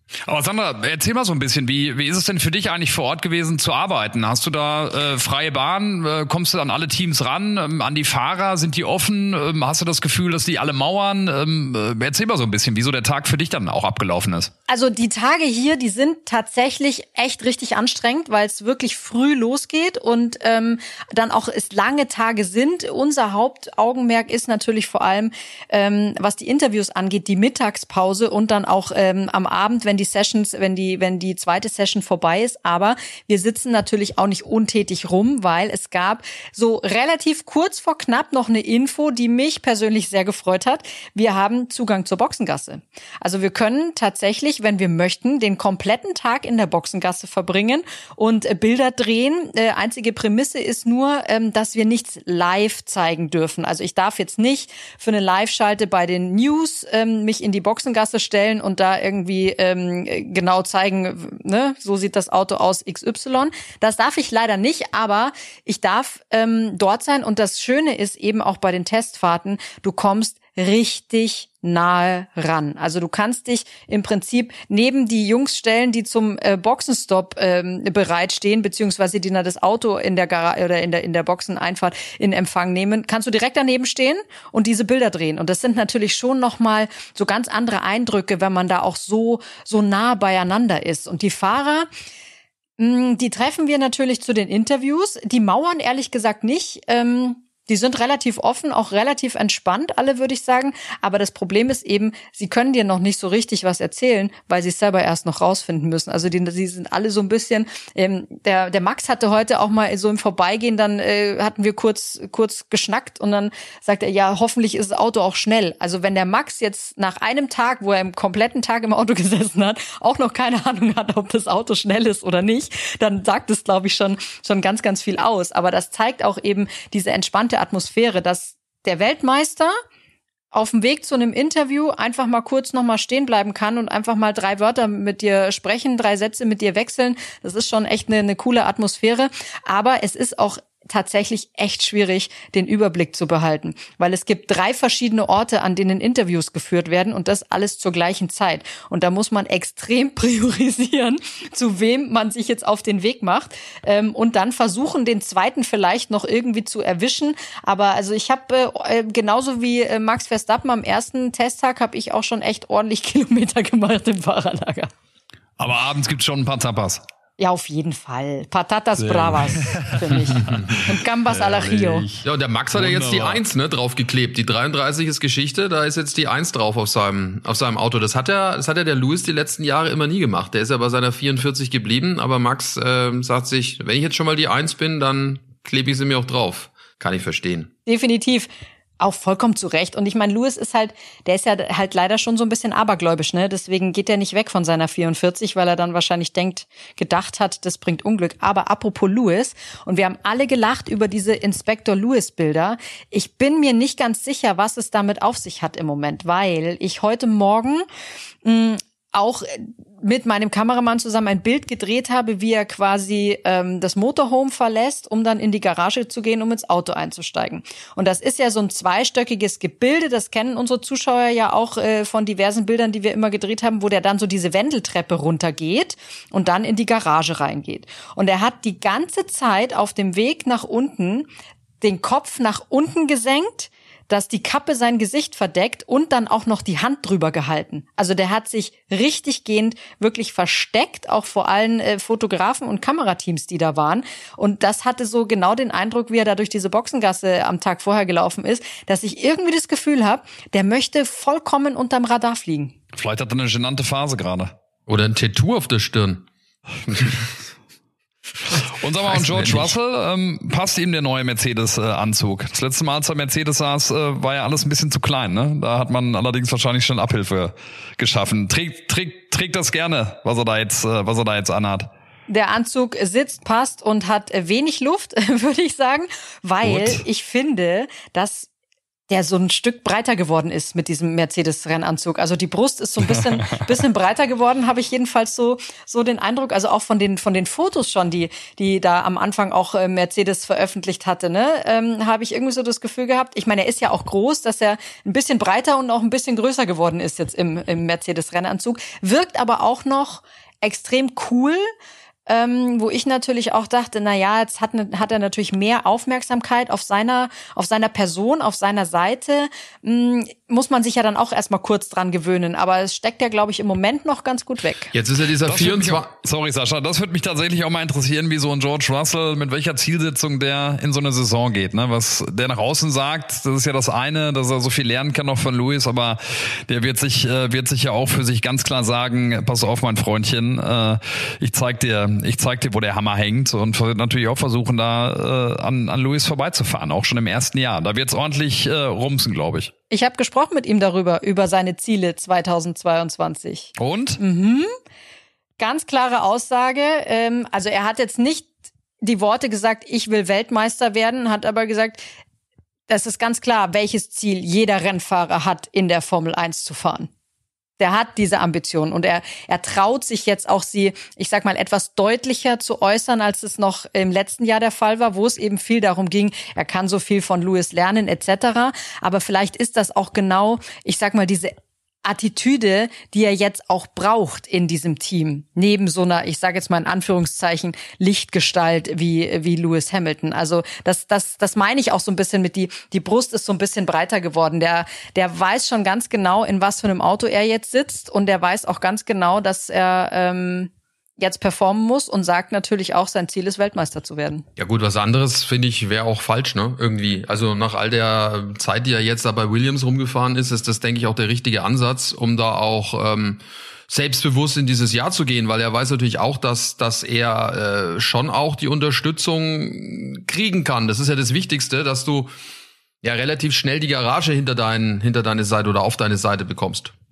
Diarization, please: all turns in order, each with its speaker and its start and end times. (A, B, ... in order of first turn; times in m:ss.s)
0:00.2-0:14.5 A
0:14.7-1:31.9 B
1:32.8-2:09.7 B
2:10.5-2:44.9 B
2:45.6-2:47.0 A
2:47.4-2:52.1 B
2:49.0-2:50.7 A
2:51.3-2:53.4 A
2:52.2-3:07.7 C
3:07.9-3:27.9 B
3:28.4-3:51.3 B
3:51.8-4:12.7 B
4:12.9-4:14.5 A
4:14.9-4:16.2 C
4:18.7-4:31.9 A
4:19.2-4:19.7 C
4:32.3-4:38.5 B
4:36.6-4:37.0 A
4:39.1-5:01.7 B
5:02.3-5:14.9 B
5:14.9-5:16.1 C
5:15.4-5:39.7 A
5:39.9-5:44.7 B
5:43.8-5:44.2 A
5:45.6-5:52.0 B
5:52.9-5:57.1 B
5:57.8-6:11.5 B
6:12.0-6:34.4 B
6:34.6-6:52.3 C
6:53.0-6:56.9 C